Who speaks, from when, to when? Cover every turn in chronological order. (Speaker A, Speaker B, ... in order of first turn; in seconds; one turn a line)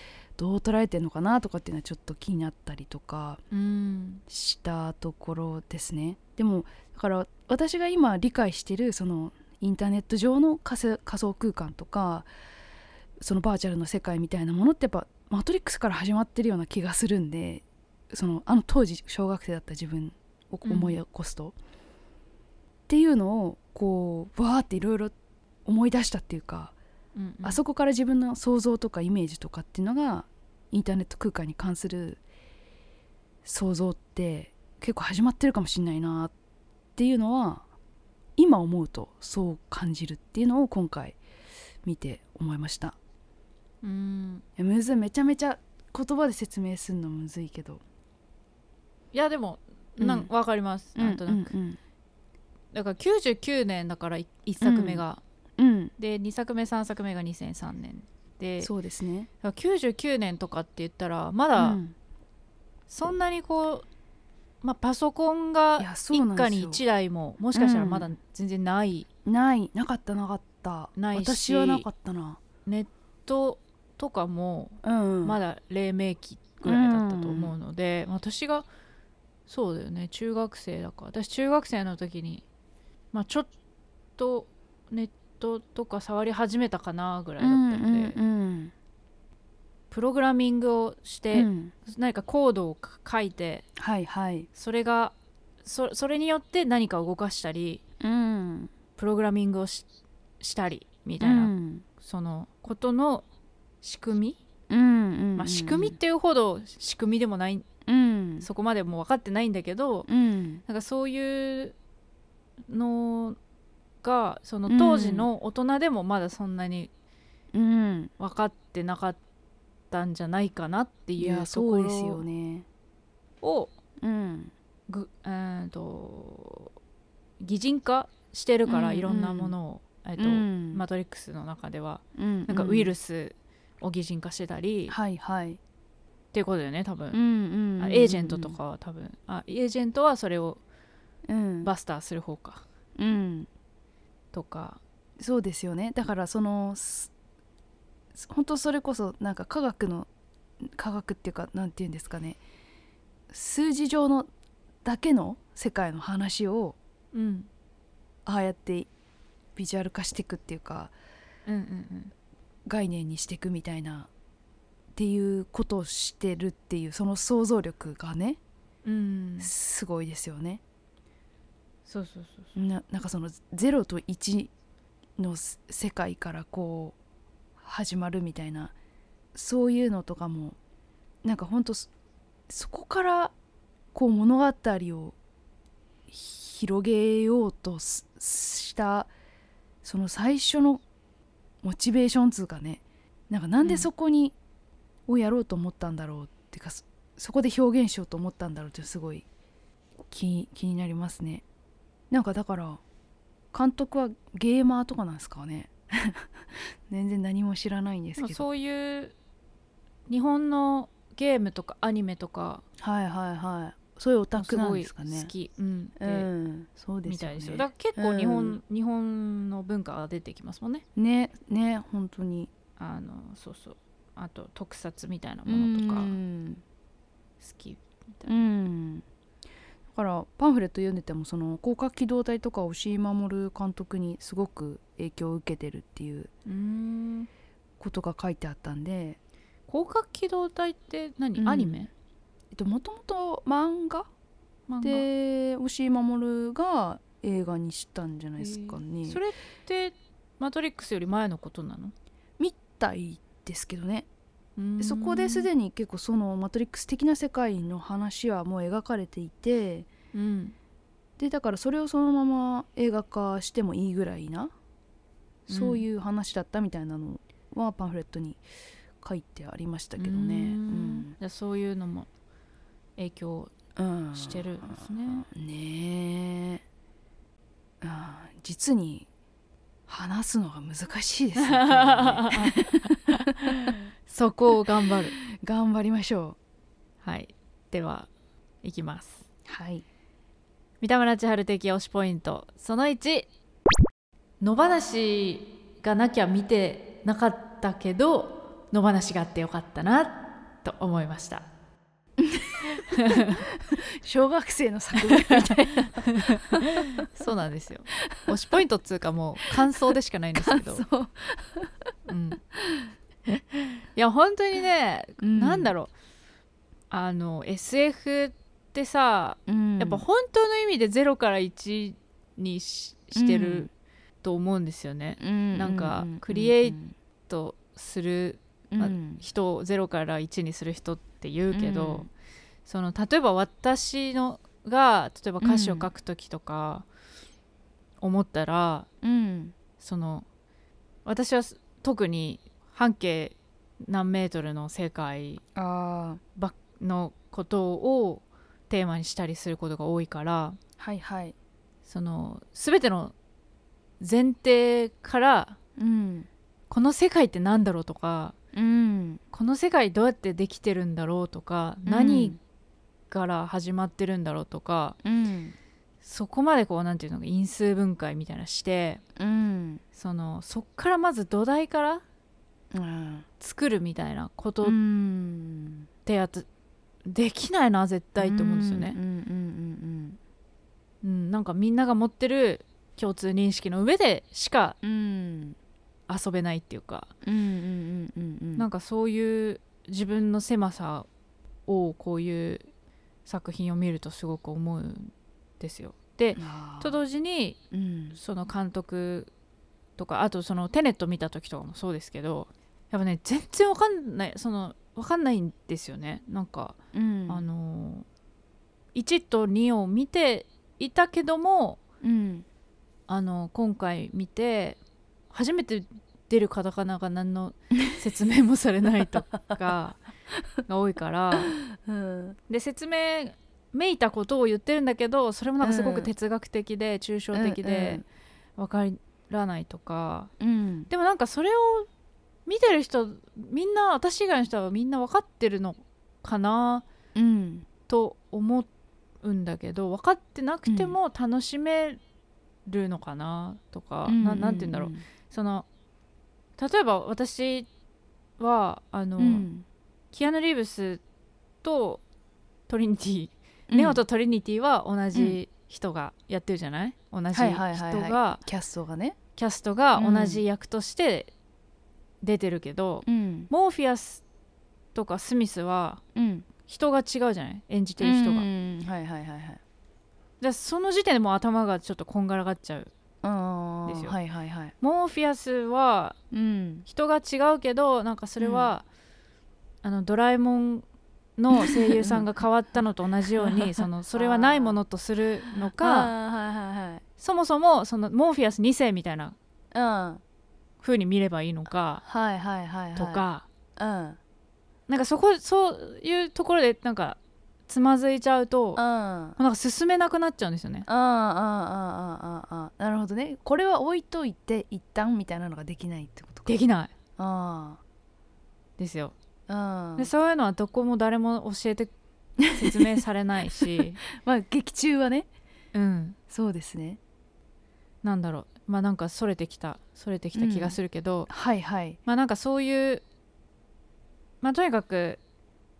Speaker A: 0.4-3.4
Speaker B: 3.5-4.2
Speaker A: 4.3-12.3
Speaker A: 13.2-21.5
Speaker B: 20.6-21.0
Speaker A: 22.9-25.1
Speaker A: 25.6-26.8
Speaker B: 27.1-27.6
Speaker A: 27.4-32.2
Speaker A: 33.4-36.3
Speaker A: 37.0-37.6
Speaker A: 38.4-41.2
Speaker A: 41.8-43.0
Speaker B: 43.8-44.4
Speaker A: 44.6-47.8
Speaker B: 49.1-51.5
Speaker A: 50.0-50.3
Speaker A: 51.0-51.8
Speaker B: 52.7-55.2
Speaker A: 54.6-55.0
Speaker A: 55.6-55.9
Speaker B: 56.0-58.7
Speaker A: 58.6-59.3
Speaker B: 59.4-61.8
Speaker A: 61.6-61.9
Speaker B: 62.9-63.8
Speaker B: 64.6-69.1
Speaker A: 65.8-66.8
Speaker A: 67.5-68.1
Speaker A: 69.2-72.4
Speaker B: 71.0-71.9
Speaker B: 72.6-78.7
Speaker A: 74.8-75.4
Speaker A: 76.6-77.5
Speaker B: 79.5-82.4
Speaker B: 83.1-83.5
Speaker B: 84.2-88.2
Speaker A: 87.4-88.7
Speaker B: 89.9-93.7
Speaker A: 91.3-91.7
Speaker A: 93.8-94.5
Speaker B: 94.5-97.8
Speaker A: 98.0-98.7
Speaker B: 99.0-99.8
Speaker B: 100.4-103.2
Speaker A: 101.2-101.8
Speaker B: 103.8-104.4
Speaker A: 104.7-106.0
Speaker B: 105.3-107.7
Speaker A: 107.8-108.5
Speaker B: 108.4-110.1
Speaker A: 110.1-110.6
Speaker B: 110.7-111.8
Speaker B: 112.7-113.4
Speaker B: 114.0-116.9
Speaker A: 114.7-115.3
Speaker A: 117.5-118.1
Speaker B: 118.2-119.2
Speaker B: 119.9-122.2
Speaker A: 121.2-122.7
Speaker B: 123.4-123.7
Speaker A: 124.0-124.5
Speaker B: 124.9-126.7
Speaker B: 127.4-134.9
Speaker A: 128.7-129.5
Speaker A: 130.2-130.8
Speaker A: 132.2-132.9
Speaker A: 134.9-135.6
Speaker B: 136.3-137.2
Speaker A: 137.1-138.6
Speaker B: 137.8-140.6
Speaker A: 141.3-141.7
Speaker B: 141.6-142.6
Speaker A: 143.0-143.5
Speaker B: 144.3-144.8
Speaker A: 145.2-147.1
Speaker A: 148.1-150.1
Speaker A: 150.6-152.4
Speaker A: 153.3-154.3
Speaker A: 154.8-156.8
Speaker B: 157.1-157.5
Speaker A: 158.2-158.9
Speaker A: 159.6-160.9
Speaker B: 161.4-162.1
Speaker A: 162.7-164.1
Speaker A: 164.9-168.4
Speaker B: 168.8-169.5
Speaker A: 169.4-170.6
Speaker B: 171.8-172.5
Speaker A: 172.5-174.5
Speaker A: 175.2-177.0
Speaker A: 177.6-178.7
Speaker A: 179.3-180.6
Speaker A: 181.2-181.9
Speaker A: 182.5-183.3
Speaker A: 183.9-185.2
Speaker A: 186.1-189.1
Speaker A: 189.8-190.8
Speaker A: 191.6-194.3
Speaker B: 193.6-193.9
Speaker A: 195.1-199.2
Speaker A: 200.1-201.4
Speaker A: 202.1-202.8
Speaker A: 203.5-208.4
Speaker B: 208.2-209.1
Speaker B: 210.1-212.6
Speaker A: 212.8-215.3
Speaker B: 214.4-216.3
Speaker A: 216.0-218.6
Speaker B: 217.1-220.8
Speaker A: 220.9-222.5
Speaker B: 222.8-226.1
Speaker A: 225.5-226.6
Speaker B: 227.4-228.4
Speaker A: 228.3-229.0
Speaker A: 229.9-236.3
Speaker B: 236.5-237.3
Speaker A: 237.8-239.2
Speaker B: 239.7-241.9
Speaker A: 241.4-241.8
Speaker A: 242.5-244.1
Speaker B: 244.7-245.1
Speaker A: 244.8-249.2
Speaker B: 248.4-251.9
Speaker A: 252.4-254.1
Speaker B: 254.6-255.5
Speaker A: 254.8-259.9
Speaker B: 260.1-260.5
Speaker A: 261.2-264.5
Speaker A: 265.5-268.4
Speaker B: 265.5-265.8
Speaker A: 269.0-271.1
Speaker B: 270.0-272.1
Speaker B: 273.0-273.5
Speaker A: 273.8-276.6
Speaker B: 274.1-275.2
Speaker A: 277.8-279.1
Speaker A: 279.9-283.7
Speaker B: 281.4-285.2
Speaker A: 285.2-286.4
Speaker B: 287.0-288.1
Speaker B: 288.6-289.2
Speaker A: 289.4-289.8
Speaker B: 290.8-293.3
Speaker B: 294.4-301.4
Speaker A: 302.2-307.1
Speaker B: 302.9-303.4
Speaker B: 305.0-310.8
Speaker A: 308.0-308.3
Speaker A: 310.4-311.7
Speaker B: 312.1-312.4
Speaker A: 312.5-313.8
Speaker B: 313.9-315.9
Speaker A: 315.2-315.7
Speaker B: 316.9-323.7
Speaker A: 319.5-320.0
Speaker A: 323.1-323.7
Speaker B: 324.2-332.1
Speaker A: 325.2-326.9
Speaker A: 328.7-329.2
Speaker A: 331.5-332.1
Speaker B: 332.6-336.9
Speaker A: 335.4-335.9
Speaker B: 338.0-338.9
Speaker A: 339.0-339.5
Speaker B: 339.8-340.2
Speaker B: 341.0-345.4
Speaker A: 345.5-346.2
Speaker B: 346.4-350.6
Speaker A: 350.8-351.3
Speaker B: 351.9-353.1
Speaker B: 354.0-355.6
Speaker A: 355.8-356.3
Speaker B: 356.7-358.3
Speaker A: 358.5-359.2
Speaker B: 359.3-362.4
Speaker A: 361.9-362.4
Speaker B: 363.1-365.0
Speaker A: 365.0-365.5
Speaker B: 366.0-369.0
Speaker A: 369.1-369.8
Speaker B: 369.9-372.0
Speaker A: 372.7-373.3
Speaker B: 373.4-374.8
Speaker A: 374.6-375.9
Speaker B: 376.1-376.5
Speaker B: 377.1-379.0
Speaker A: 378.2-380.2
Speaker B: 381.0-384.8
Speaker A: 384.8-385.6
Speaker B: 386.1-387.1
Speaker A: 387.2-388.6
Speaker B: 388.6-391.1
Speaker B: 391.7-392.7
Speaker B: 393.2-397.6
Speaker A: 396.4-397.0
Speaker A: 397.7-398.2
Speaker B: 398.1-399.3
Speaker B: 400.0-408.1
Speaker A: 406.9-407.4
Speaker B: 408.9-411.8
Speaker A: 412.0-412.4
Speaker B: 413.1-414.8
Speaker B: 415.3-420.0
Speaker B: 420.6-421.6
Speaker A: 421.3-422.4
Speaker B: 422.5-428.0
Speaker A: 425.6-426.1
Speaker A: 427.3-428.0
Speaker B: 428.6-430.3
Speaker A: 430.4-430.9
Speaker B: 430.9-431.9
Speaker B: 432.4-436.9
Speaker A: 437.1-437.7
Speaker B: 437.9-438.7
Speaker B: 439.2-442.0
Speaker A: 440.7-441.0
Speaker B: 442.7-445.7
Speaker A: 444.1-445.0
Speaker B: 446.6-447.7
Speaker B: 448.4-449.5
Speaker A: 449.2-449.6
Speaker B: 450.1-451.0
Speaker B: 451.6-452.0
Speaker B: 452.7-458.4
Speaker A: 453.7-454.0
Speaker A: 455.1-455.4
Speaker A: 457.3-459.2
Speaker B: 459.4-461.3
Speaker A: 459.9-460.4
Speaker B: 462.2-464.2
Speaker A: 463.0-463.5
Speaker B: 464.9-466.0
Speaker A: 466.1-466.5
Speaker B: 466.6-468.5
Speaker A: 468.0-469.6
Speaker B: 470.4-472.9
Speaker A: 473.2-474.7
Speaker B: 473.9-474.1
Speaker B: 474.8-476.2
Speaker A: 476.3-476.9
Speaker B: 476.9-478.8
Speaker A: 478.4-478.7
Speaker B: 479.8-480.8
Speaker B: 481.4-486.1
Speaker A: 481.6-482.3
Speaker A: 483.4-484.8
Speaker A: 485.6-487.0
Speaker B: 487.2-489.4
Speaker A: 489.7-490.2
Speaker B: 490.8-492.0
Speaker A: 492.0-493.2
Speaker B: 492.9-493.4
Speaker A: 493.8-494.2
Speaker B: 494.9-498.8
Speaker A: 498.8-499.4
Speaker B: 499.4-500.9
Speaker A: 500.9-506.5
Speaker B: 506.4-506.9
Speaker A: 507.2-507.8
Speaker B: 508.8-509.1
Speaker A: 509.5-510.1
Speaker B: 510.0-511.9
Speaker A: 512.4-513.0
Speaker B: 512.5-514.0
Speaker A: 513.5-515.3
Speaker B: 515.7-516.2
Speaker A: 516.3-517.0
Speaker B: 518.0-521.3
Speaker A: 520.3-520.8
Speaker A: 521.3-522.0
Speaker B: 522.0-523.0
Speaker B: 524.4-525.2